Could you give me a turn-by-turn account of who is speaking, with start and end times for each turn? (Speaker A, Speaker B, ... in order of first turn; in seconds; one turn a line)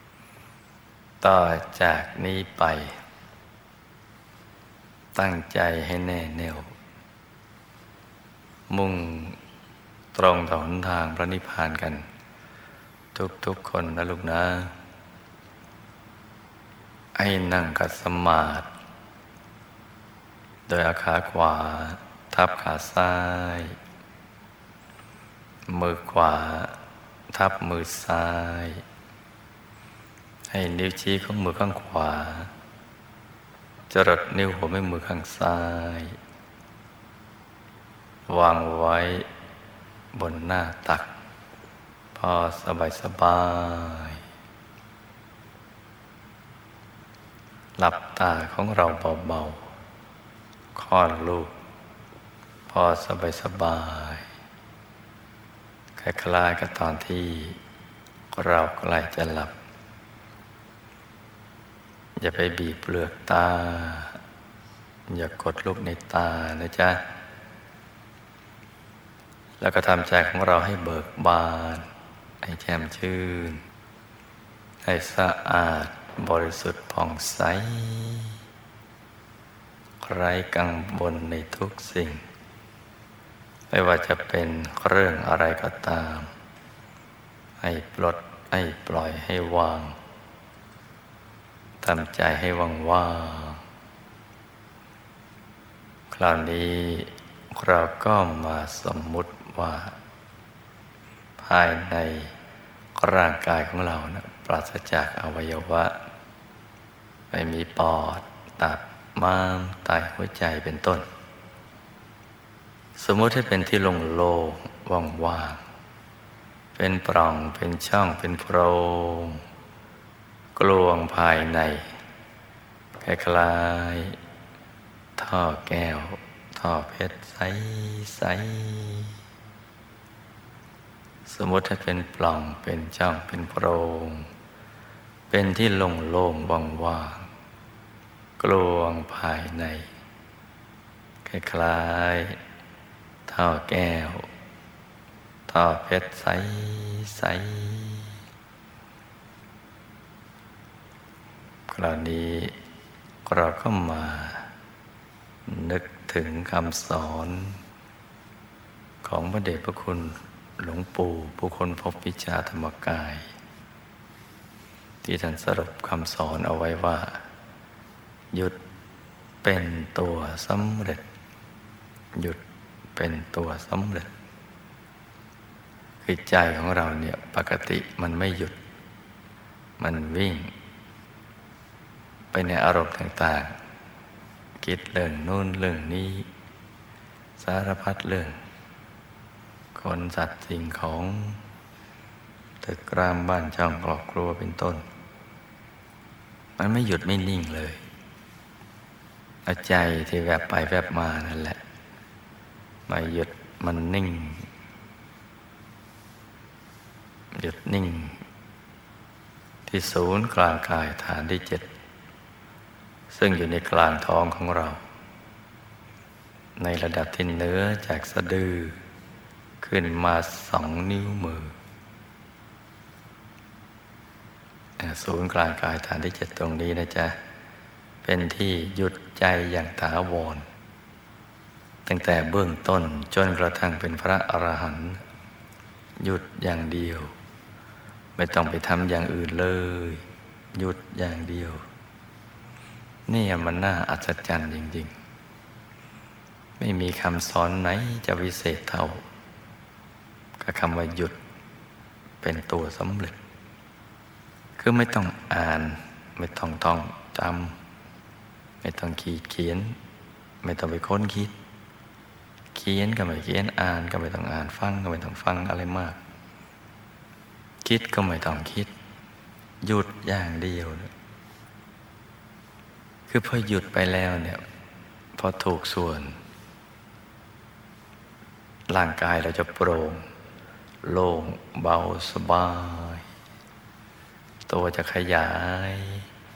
Speaker A: 1.2-3.0
Speaker A: 5.2-6.7
Speaker A: 8.7-9.4
Speaker A: 10.1-12.1
Speaker A: 13.2-14.7
Speaker A: 17.1-18.7
Speaker A: 20.7-23.8
Speaker A: 25.7-26.8
Speaker A: 27.3-28.8
Speaker A: 30.5-32.5
Speaker A: 33.9-36.2
Speaker A: 38.3-39.3
Speaker A: 40.1-41.1
Speaker A: 42.1-44.2
Speaker A: 47.8-49.6
Speaker A: 50.8-51.5
Speaker A: 52.7-54.3
Speaker A: 56.0-57.6
Speaker A: 58.3-59.5
Speaker A: 62.2-64.2
Speaker A: 65.1-67.0
Speaker A: 69.6-71.9
Speaker A: 72.4-73.6
Speaker A: 74.8-78.4
Speaker A: 80.0-82.2
Speaker A: 83.7-86.3
Speaker A: 87.6-90.0
Speaker A: 91.8-93.6
Speaker A: 96.1-100.0
Speaker A: 101.4-102.3
Speaker A: 103.0-106.0
Speaker A: 107.3-111.1
Speaker A: 113.0-115.6
Speaker A: 116.8-119.4
Speaker A: 120.6-122.0
Speaker A: 123.0-124.2
Speaker A: 125.2-129.2
Speaker A: 131.3-134.3
Speaker A: 135.3-137.3
Speaker A: 138.4-139.9
Speaker A: 141.2-142.4
Speaker A: 143.3-144.3
Speaker A: 145.5-148.2
Speaker A: 151.7-152.6
Speaker A: 153.2-154.5
Speaker A: 155.5-157.6
Speaker A: 159.0-163.3
Speaker A: 165.0-167.2
Speaker A: 169.4-171.1
Speaker A: 172.2-172.4
Speaker A: 172.9-174.1
Speaker A: 176.0-178.6
Speaker A: 179.8-180.5
Speaker A: 182.3-183.6
Speaker A: 184.6-186.3
Speaker A: 187.4-188.4
Speaker A: 189.8-191.4
Speaker A: 192.6-194.8
Speaker A: 196.6-197.8
Speaker A: 199.4-201.6
Speaker A: 202.9-204.5
Speaker A: 207.3-208.2
Speaker A: 209.7-211.7
Speaker A: 213.1-214.8
Speaker A: 216.6-218.8
Speaker A: 219.6-221.6
Speaker A: 224.8-227.2
Speaker A: 228.0-230.5
Speaker A: 231.9-235.0
Speaker A: 236.0-237.1
Speaker A: 238.2-241.6
Speaker A: 243.1-244.9
Speaker A: 246.6-249.0
Speaker A: 250.4-251.2
Speaker A: 252.2-253.2
Speaker A: 254.6-257.6
Speaker A: 258.6-259.8
Speaker A: 260.4-261.3
Speaker A: 262.5-266.0
Speaker A: 267.6-268.7
Speaker A: 269.6-270.9
Speaker A: 273.1-274.4
Speaker A: 275.2-276.2
Speaker A: 278.7-280.1
Speaker A: 280.8-283.1
Speaker A: 284.5-286.1